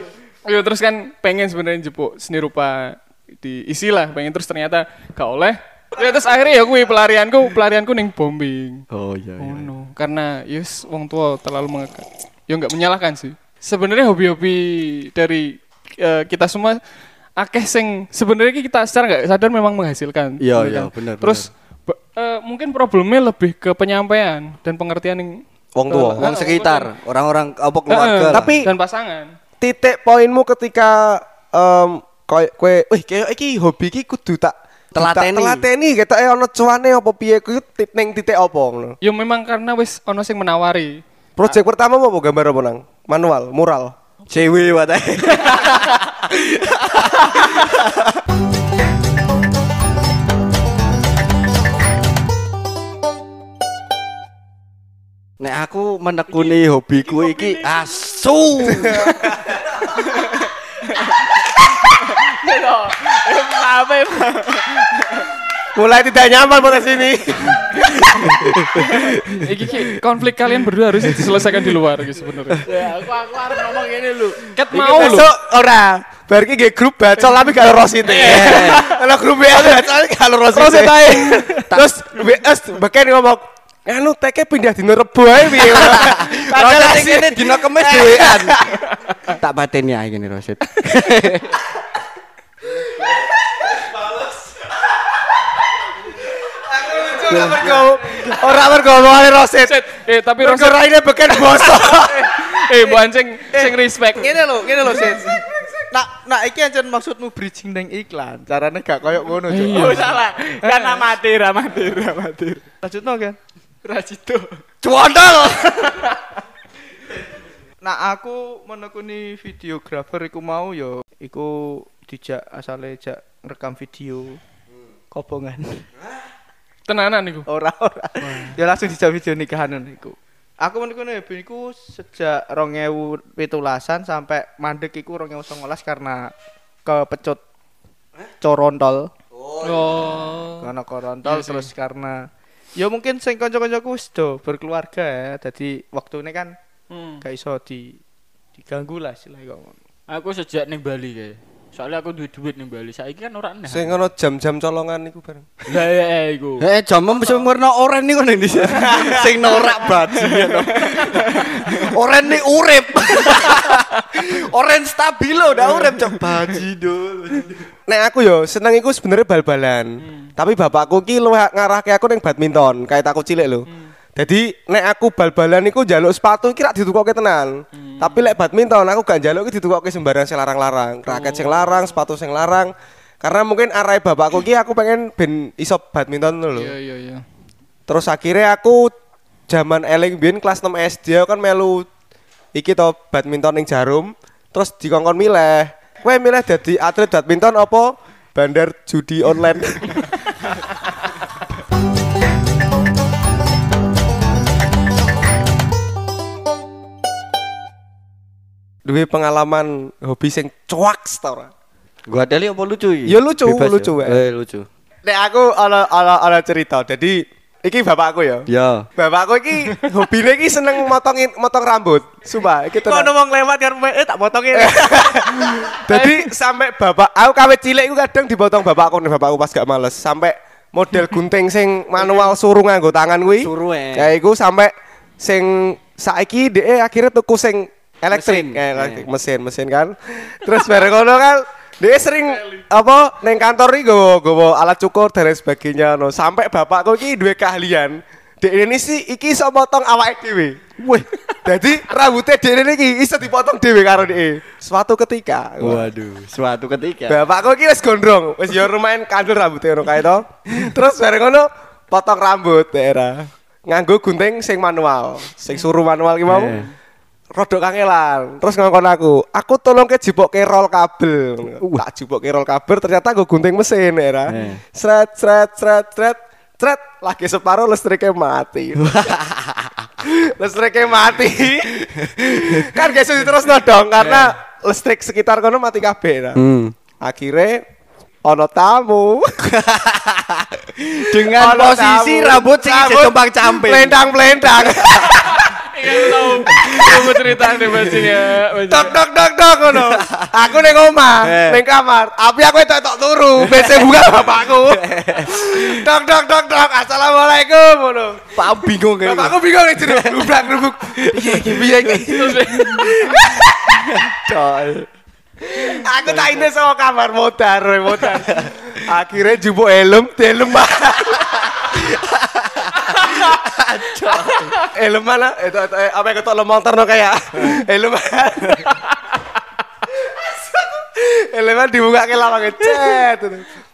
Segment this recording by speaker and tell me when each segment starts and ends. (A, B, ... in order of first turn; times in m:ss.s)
0:00.5-0:08.8 A
0:08.9-0:09.7 B
0:09.4-0:16.8 A
0:17.4-0:26.9 A
0:20.4-0:21.5 B
0:25.8-0:26.3 C
0:26.2-0:28.6 B
0:27.9-0:29.3 A
0:28.3-0:28.7 C
0:29.6-0:39.0 C
0:35.0-0:35.7 B
0:39.0-0:41.6 A
0:41.4-0:44.0 C
0:44.3-0:48.1 B
0:55.4-0:59.1 B
0:56.3-0:57.7 D
0:58.7-0:59.4 C
1:00.0-1:05.3 D
1:05.7-1:08.3 C
1:08.2-1:09.4 B
1:09.4-1:12.7 A
1:12.6-1:14.6 D
1:14.5-1:15.3 A
1:14.7-1:28.8 C
1:18.1-1:18.8 B
1:20.5-1:21.7 A
1:25.8-1:28.6 B
1:29.4-1:31.6 B
1:36.5-1:39.8 C
1:37.3-1:37.8 B
1:39.6-1:40.8 A
1:40.4-1:42.3 C
1:42.0-1:44.4 A
1:42.8-1:51.1 E
1:49.5-1:50.2 A
1:49.6-1:52.6 D
1:52.8-1:53.4 E
1:53.8-1:54.6 D
1:54.8-1:56.0 B
1:57.8-2:04.4 E
2:05.1-2:05.9 E
2:06.9-2:07.5 A
2:07.5-2:16.3 E
2:08.3-2:08.5 A
2:16.8-2:17.4 E
2:18.4-2:19.1 E
2:19.4-2:20.3 B
2:19.6-2:20.7 A
2:20.6-2:26.5 E
2:21.2-2:21.7 A
2:26.9-2:27.2 A
2:27.2-2:28.0 E
2:28.6-2:29.8 E
2:30.1-2:33.9 D
2:33.7-2:35.5 C
2:35.7-2:36.6 D
2:36.6-2:47.7 B
2:40.1-2:41.7 D
2:47.9-3:06.8 C
2:50.0-2:50.3 A
2:57.9-2:58.3 A
3:01.1-3:01.8 A
3:06.6-3:07.2 A
3:07.9-3:08.9 C
3:09.5-3:11.9 C
3:12.5-3:20.0 C
3:28.8-3:31.5 C
3:32.1-3:34.7 B
3:33.1-3:34.2 C
3:35.0-3:43.1 C
3:38.5-3:38.9 B
3:42.7-3:45.8 E
3:44.5-4:10.6 C
3:45.9-3:46.3 A
3:53.4-3:54.1 B
3:58.1-3:59.1 B
4:10.8-4:11.0 B
4:11.4-4:15.9 C
4:15.6-4:17.2 B
4:17.1-4:26.6 C
4:26.3-4:26.7 B
4:27.3-4:39.2 C
4:34.3-4:34.6 B
4:38.8-4:39.9 B
4:40.0-4:41.7 C
4:42.2-4:42.7 B
4:42.3-4:46.4 C
4:46.4-4:46.8 B
4:47.0-4:47.6 C
4:48.2-4:49.4 C
4:49.5-4:54.0 B
4:51.3-4:55.4 C
4:55.1-4:59.0 A
4:56.5-4:58.1 B
4:58.6-5:08.3 C
4:59.7-5:00.3 B
5:01.2-5:01.6 B
5:03.4-5:04.0 B
5:04.7-5:05.6 B
5:08.4-5:10.3 B
5:09.0-5:13.8 C
5:11.1-5:12.0 B
5:12.1-5:12.7 A
5:12.6-5:13.1 B
5:13.8-5:14.9 B
5:15.4-5:21.6 C
5:21.7-5:24.6 B
5:24.7-5:28.8 C
5:30.0-5:33.5 C